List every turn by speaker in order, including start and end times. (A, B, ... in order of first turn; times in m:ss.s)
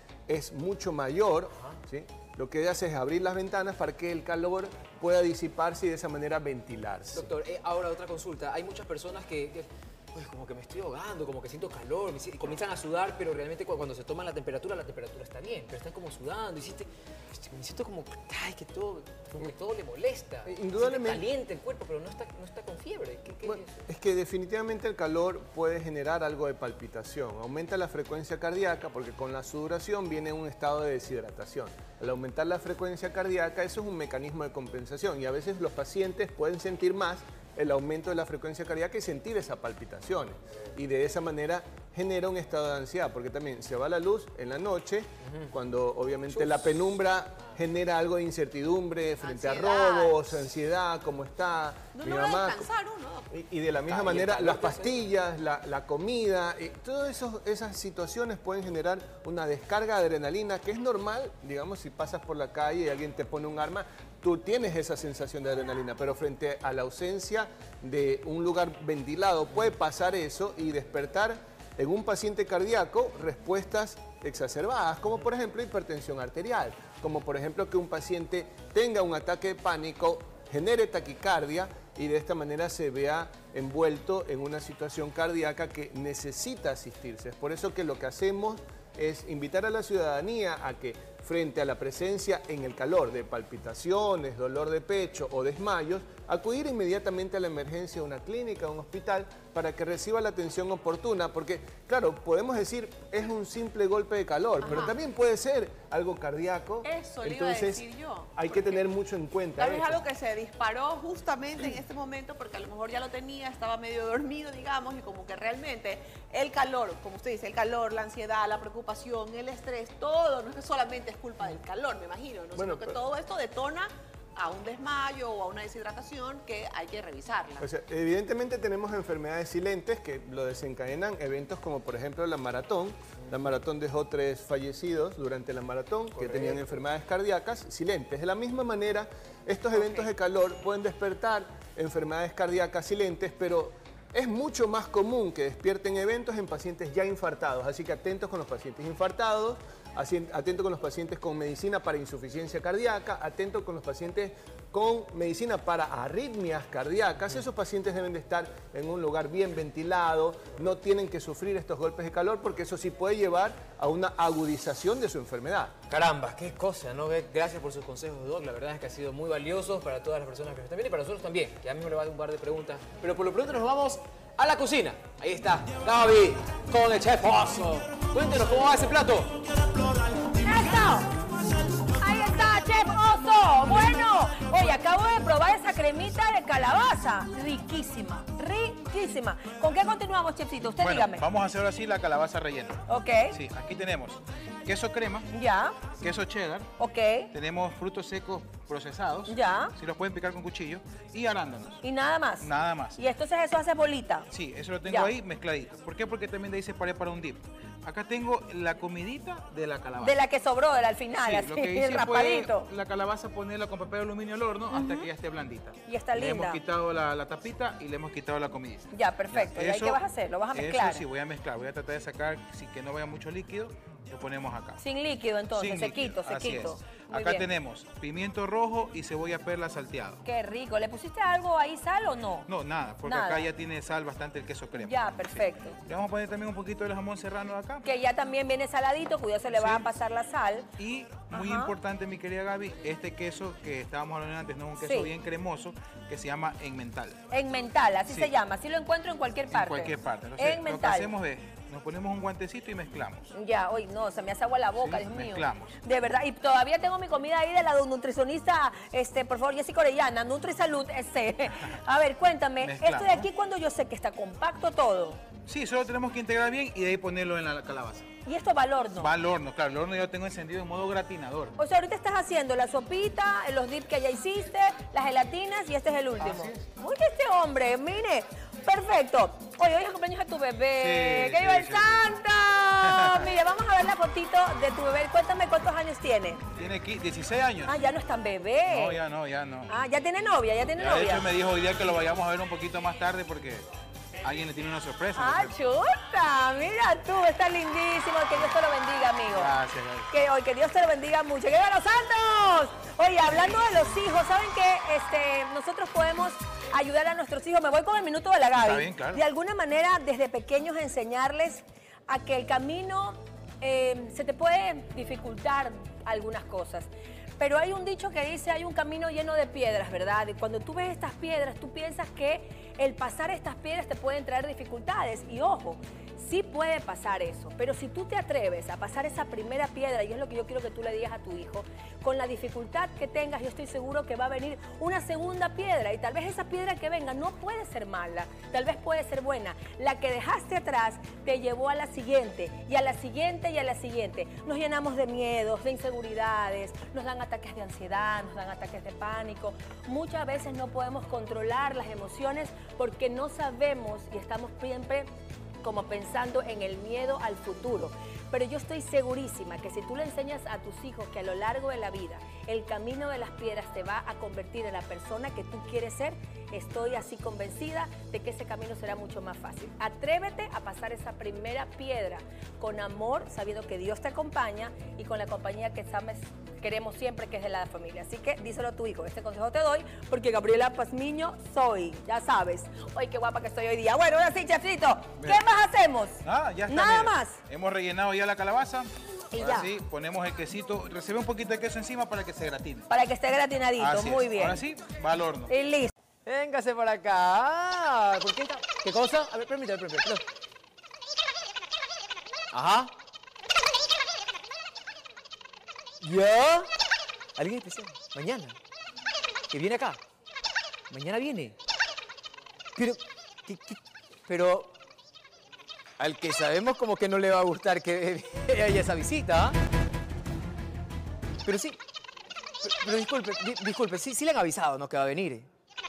0:00.3-0:07.3 A
0:07.1-0:23.8 B
0:20.4-0:21.2 A
0:23.4-0:52.7 A
0:45.2-0:45.5 B
0:49.2-0:50.3 C
0:51.9-0:53.3 C
0:53.3-1:50.0 A
0:53.8-0:55.0 B
1:44.6-1:44.9 C
1:46.8-1:48.8 C
1:49.6-2:07.6 C
2:02.6-2:03.0 A
2:07.6-2:45.7 A
2:16.2-2:16.6 B
2:45.9-2:59.4 B
3:00.3-3:01.3 D
3:01.9-3:11.2 D
3:10.8-3:15.3 E
3:12.9-3:13.3 D
3:15.3-3:15.8 D
3:15.9-3:16.7 E
3:16.8-3:17.3 D
3:17.3-3:21.8 E
3:19.3-3:19.7 D
3:21.8-3:24.3 D
3:22.4-3:23.0 E
3:24.3-3:30.2 E
3:24.8-3:25.1 D
3:30.0-3:32.7 D
3:31.1-3:40.0 E
3:34.7-3:35.1 D
3:35.9-3:36.6 D
3:38.9-3:41.0 D
3:40.5-3:44.8 E
3:44.8-3:47.5 D
3:45.5-3:50.2 E
3:50.2-3:52.5 D
3:52.5-3:57.8 E
3:53.0-3:53.5 D
3:54.8-3:55.8 D
3:57.8-4:00.7 D
3:59.5-3:59.9 E
4:00.8-4:07.2 E
4:01.3-4:01.7 D
4:04.8-4:05.1 D
4:07.3-4:11.1 D
4:08.1-4:08.3 E
4:09.5-4:13.3 E
4:13.3-4:25.2 D
4:14.8-4:15.7 E
4:22.6-4:23.3 E
4:25.5-4:28.0 E
4:28.2-4:29.1 D
4:29.0-4:31.6 E
4:31.6-4:46.4 D
4:36.2-4:36.6 E
4:40.7-4:42.1 E
4:42.8-4:43.3 E
4:46.6-4:47.7 E
4:47.6-4:49.0 D
4:48.7-4:49.7 E
4:49.7-4:51.2 D
4:50.8-4:53.6 E
4:54.2-4:55.5 E
4:55.2-4:59.5 D
4:59.3-5:00.1 E
5:00.1-5:55.1 D
5:08.6-5:09.2 E
5:55.6-6:27.4 D
6:26.2-6:32.9 E
6:29.3-6:29.7 D
6:32.9-6:34.6 D
6:33.8-6:35.5 E
6:35.5-6:35.9 D
6:36.2-6:40.2 B
6:42.5-6:42.9 B
6:46.0-6:46.7 B
6:47.4-6:48.6 B
6:49.5-6:50.0 B
6:50.9-6:51.5 B
6:52.8-6:54.7 B
6:56.0-6:59.6 B
7:01.4-7:01.8 B
7:02.6-7:05.5 B